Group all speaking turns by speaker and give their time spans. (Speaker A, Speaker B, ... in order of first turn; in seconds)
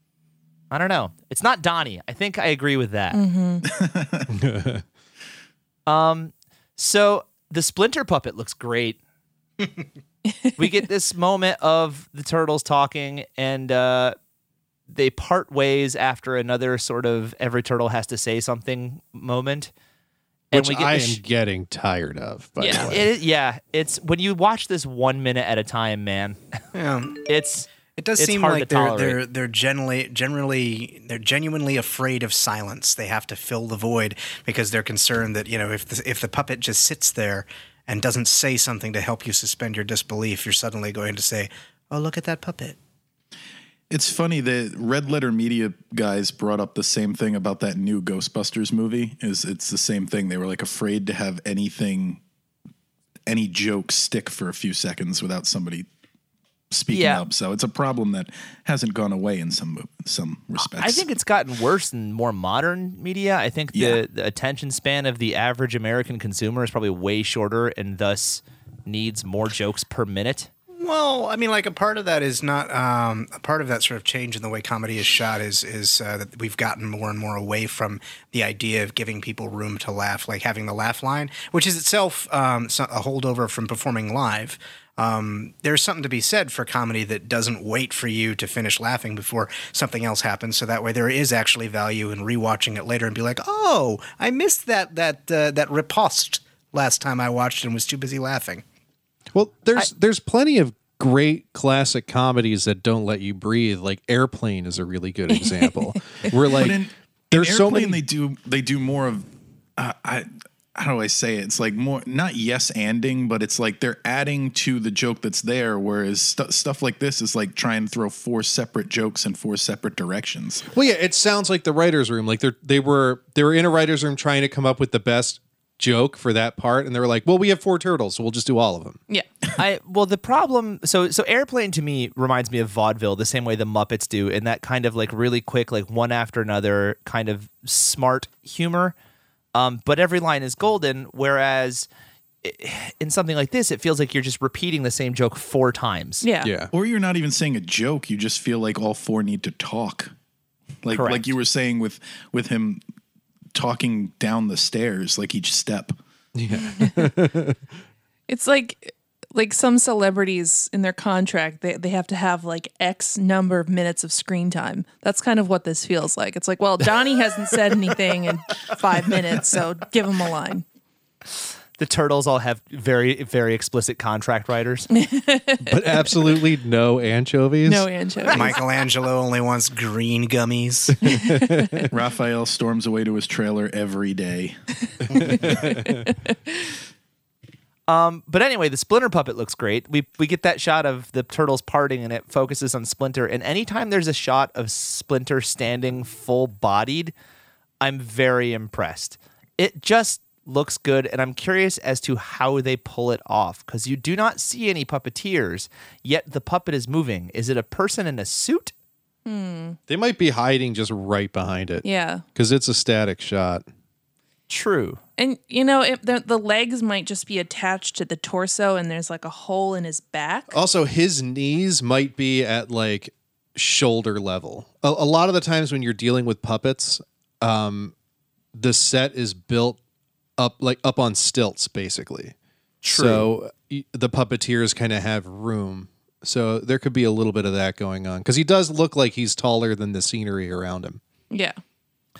Speaker A: 0.7-3.2, 5.9-9.0, 10.6-14.2, 14.9-19.7, 20.5-21.2, 22.6-26.4, 27.2-29.2, 56.9-57.2, 60.6-70.5, 129.6-138.9, 139.5-141.9, 142.4-146.2, 150.9-151.3, 171.8-174.9, 187.9-197.1, 197.8-208.7, 214.5-215.0, 232.8-233.3
Speaker B: 3.1-3.7, 22.6-22.9, 146.2-146.5, 156.7-157.1, 158.3-170.6, 174.9-176.2, 177.6-178.6, 209.2-209.8, 211.8-212.2, 215.2-220.6, 241.3-241.6
Speaker C: 3.6-4.3, 43.9-52.2, 53.3-55.9, 56.7-61.0, 63.7-64.0, 106.4-120.6, 146.7-150.1, 150.8-152.8, 153.5-155.9, 181.9-184.5
Speaker D: 4.3-4.8, 20.5-23.1, 99.3-106.8, 107.3-108.0, 120.7-129.0, 146.4-146.7, 156.3-157.6, 175.6-177.9, 181.0-181.9, 185.1-186.0, 209.9-213.6, 220.5-227.9, 228.5-229.8, 230.4-232.3, 232.9-241.0
Speaker E: 26.7-27.2, 27.9-42.8, 70.8-98.6, 178.3-181.2